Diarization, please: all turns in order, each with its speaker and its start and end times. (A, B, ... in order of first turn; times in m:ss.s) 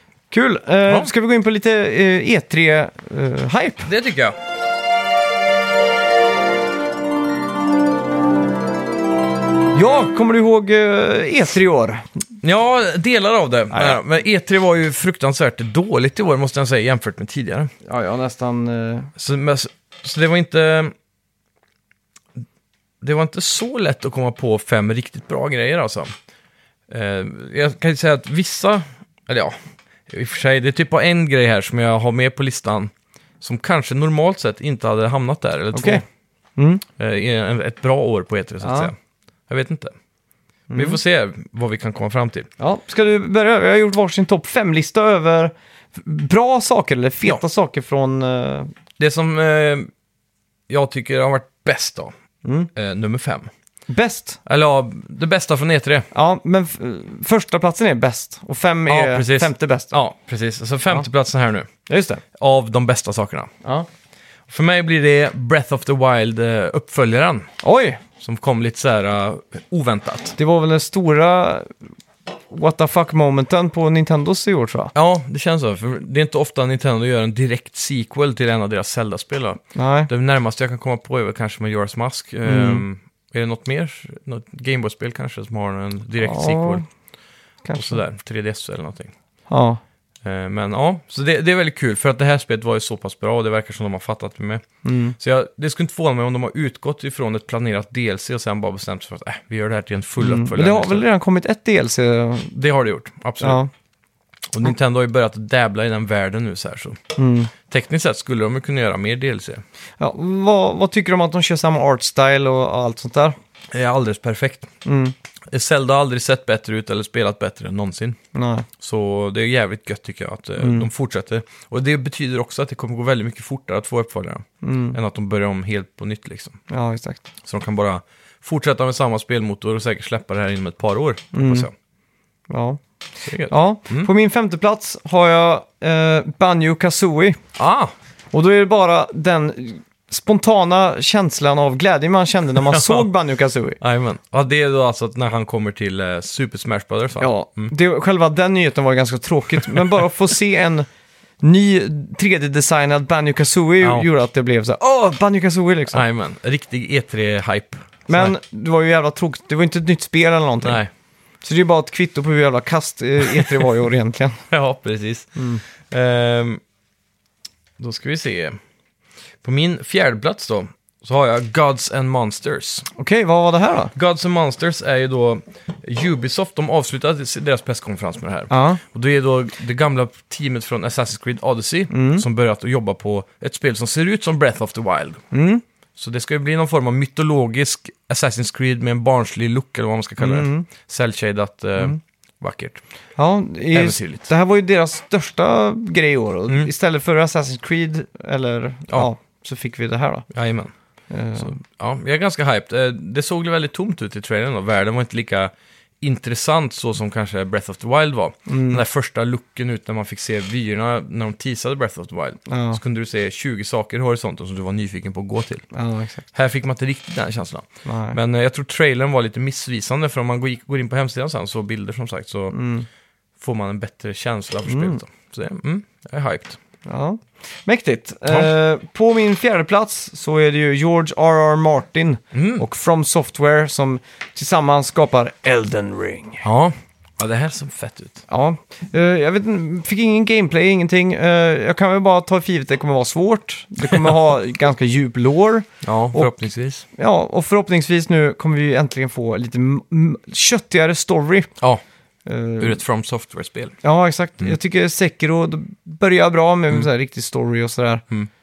0:00.3-0:03.9 A
0:00.8-0:01.1 B
0:03.8-0:04.4 B
0:09.7-0:12.0 A
0:12.4-0:17.7 B
0:13.7-0:14.0 A
0:17.8-0:19.1 A
0:19.2-0:20.9 B
0:23.0-0:26.1 B
0:26.9-0:36.0 B
0:35.7-0:36.0 A
0:36.6-0:36.8 A
0:37.0-0:38.9 B
0:38.6-0:38.9 A
0:39.5-0:39.9 B
0:40.7-0:41.0 A
0:40.7-0:42.5 B
0:42.6-0:48.7 A
0:49.0-0:49.9 B
0:50.7-0:52.1 B
0:52.4-0:52.7 A
0:52.7-0:53.5 B
0:53.9-0:54.4 A
0:54.4-0:56.1 B
0:56.1-0:59.9 A
0:58.9-1:01.7 B
1:01.9-1:02.2 A
1:02.3-1:03.5 B
1:04.5-1:07.5 B
1:07.6-1:08.0 A
1:08.2-1:10.4 B
1:10.4-1:11.7 A
1:12.5-1:14.9 A
1:14.9-1:26.8 B
1:19.7-1:20.1 A
1:22.4-1:22.8 A
1:26.2-1:26.8 A
1:27.6-1:28.0 A
1:27.7-1:29.1 B
1:29.5-1:29.8 A
1:30.2-1:34.6 B
1:34.8-1:35.2 A
1:35.2-1:41.0 B
1:40.2-1:42.5 A
1:42.5-1:43.6 B
1:43.4-1:43.7 A
1:44.5-1:47.0 B
1:47.2-1:47.5 A
1:47.7-1:49.6 B
1:50.0-1:53.4 A
1:53.7-1:54.7 B
1:54.8-1:55.1 A
1:55.5-1:58.2 B
1:58.3-1:58.7 A
1:58.8-2:06.6 B
2:00.6-2:00.9 A
2:04.6-2:05.0 A
2:06.7-2:07.3 A
2:07.4-2:11.7 B
2:11.3-2:11.7 A
2:12.5-2:12.8 A
2:13.2-2:14.1 B
2:13.4-2:17.4 A
2:17.6-2:17.9 B
2:18.3-2:23.8 A
2:22.6-2:23.1 B
2:23.8-2:27.7 B
2:27.2-2:30.9 A
2:31.4-2:36.0 A
2:35.9-2:38.3 B
2:38.1-2:40.8 A
2:40.6-2:40.9 B
2:41.4-2:44.4 A
2:44.5-2:46.6 B
2:45.4-2:45.6 A
2:47.8-2:48.6 B
2:49.4-2:52.8 B
2:52.9-2:53.9 A
2:53.9-3:05.2 B
2:58.5-2:58.8 A
3:01.9-3:02.2 A
3:05.3-3:05.6 A
3:06.0-3:12.8 B
3:10.2-3:10.7 A
3:13.2-3:20.3 A
3:13.7-3:14.3 B
3:20.3-3:20.7 B
3:21.1-3:21.6 A
3:21.4-3:35.6 B
3:28.5-3:28.8 A
3:32.5-3:32.8 A
3:35.7-3:36.2 A
3:36.3-3:42.6 B
3:37.8-3:38.2 A
3:42.5-3:42.9 A
3:43.4-3:46.6 B
3:44.7-3:45.0 A
3:46.8-3:56.4 A
3:52.3-3:52.6 B
3:56.4-3:58.2 B
3:58.3-4:06.3 A
4:05.8-4:06.8 B
4:06.9-4:11.5 A
4:12.2-4:12.8 A
4:12.6-4:13.8 B
4:13.8-4:18.0 A